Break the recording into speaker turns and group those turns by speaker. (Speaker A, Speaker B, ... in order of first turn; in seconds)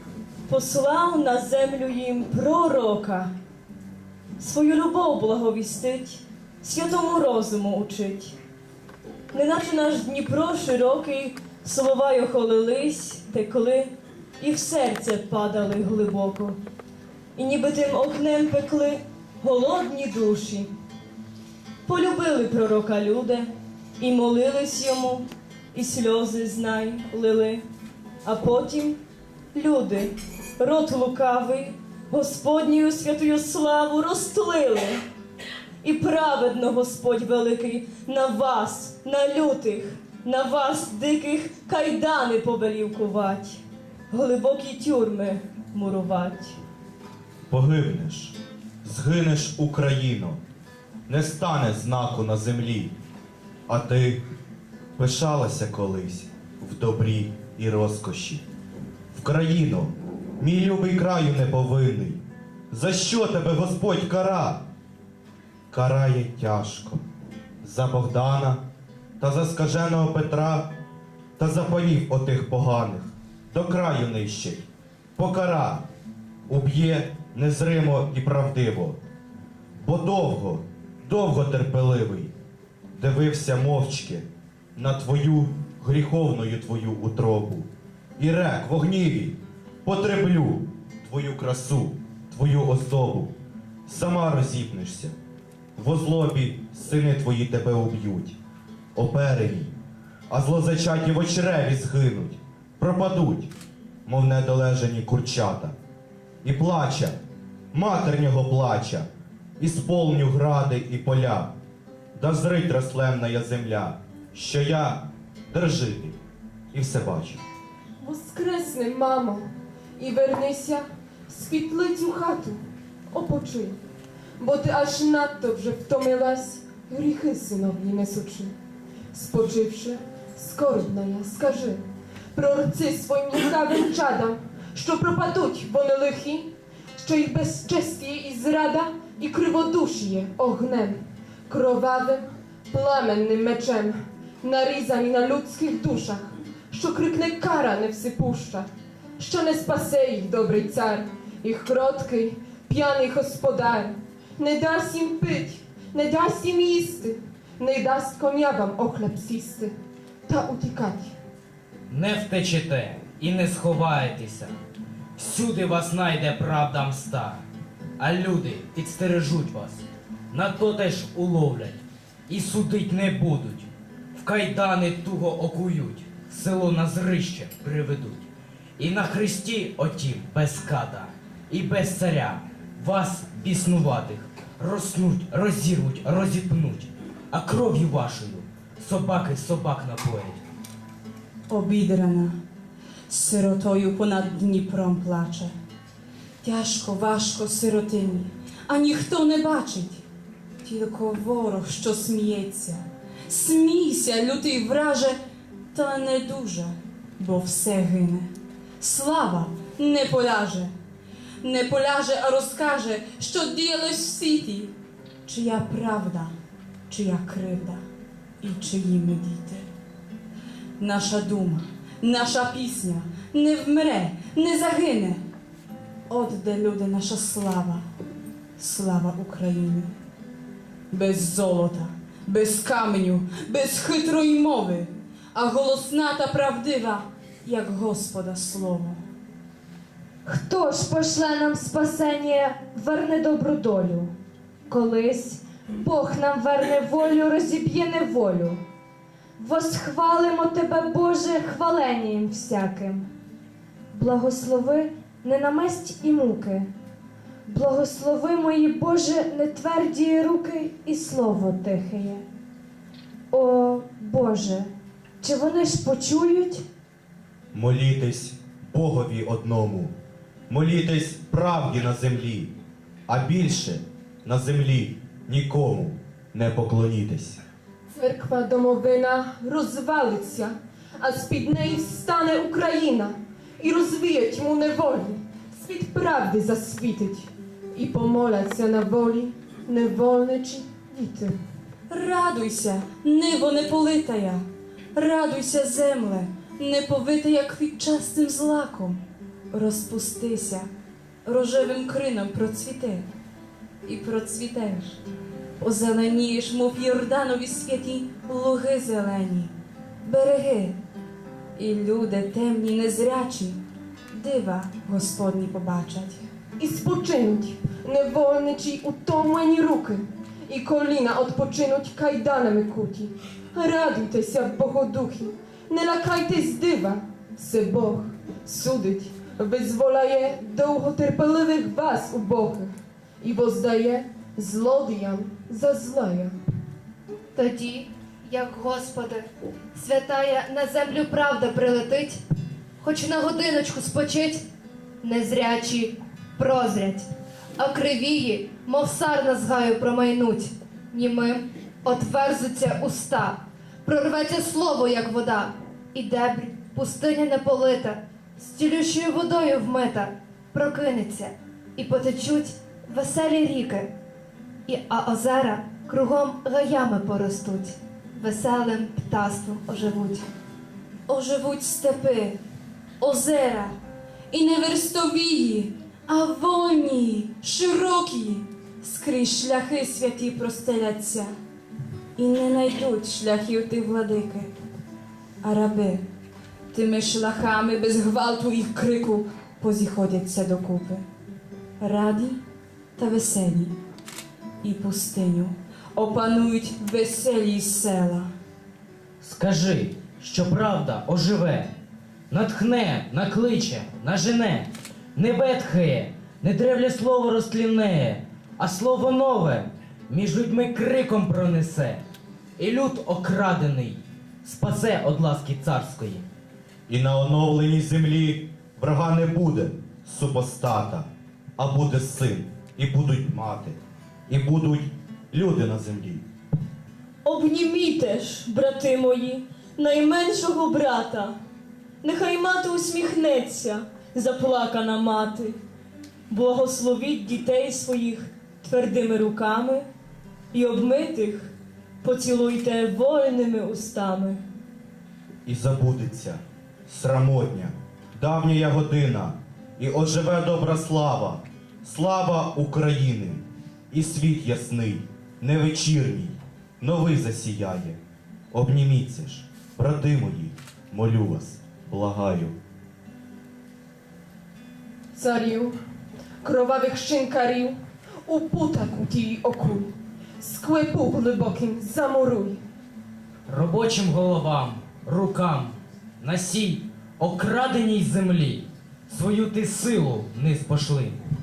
Speaker A: 0.5-3.3, 4.4-8.3, 9.3-16.6, 17.4-20.7, 21.9-27.6, 28.2-29.0, 29.5-35.0, 35.8-46.5, 427.2-431.3, 432.0-435.6, 436.3-439.9, 440.5-444.4
Speaker B: 47.5-50.4, 51.1-52.9, 53.7-54.2, 55.0-58.4, 59.1-64.6, 65.7-67.0, 67.6-68.6, 69.2-70.7, 71.4-75.8, 76.5-79.0, 79.8-82.3, 83.0-93.3, 93.9-95.1, 95.8-98.3, 98.9-99.7, 100.3-103.5, 104.0-105.8, 106.4-107.2, 107.7-111.5, 112.1-116.2, 116.7-117.4, 267.5-269.9, 270.5-272.5, 273.1-277.4, 416.9-426.2, 445.4-458.0, 458.5-462.5
Speaker C: 118.0-119.5, 120.0-123.8, 124.4-128.5, 129.1-148.7, 149.2-159.7, 160.3-161.1, 277.9-291.4, 316.6-336.4, 465.1-465.8, 466.4-472.6
Speaker D: 161.9-164.5, 165.2-167.4, 168.0-178.3, 178.8-190.4, 399.2-401.7, 402.3-412.0, 412.6-416.2, 473.5-481.2
Speaker E: 191.5-192.4, 193.1-195.5, 196.4-200.0, 200.6-205.2, 205.7-210.7, 211.4-214.7, 215.2-216.3, 216.9-217.8, 218.4-219.7, 220.8-225.2, 226.1-227.8, 228.6-229.9, 230.9-239.0, 291.9-300.7, 301.2-303.1, 303.8-305.0, 305.6-310.8, 311.6-316.3, 371.1-372.4, 373.0-373.8, 374.3-381.3, 382.1-384.5, 385.4-386.0, 386.7-391.1, 391.8-392.4, 393.0-393.7, 394.6-398.3
Speaker F: 240.2-244.1, 244.7-248.6, 249.4-253.1, 253.9-256.7, 257.5-262.2, 263.3-266.6
Speaker G: 337.3-342.2, 342.8-344.4, 345.0-363.9, 364.7-370.3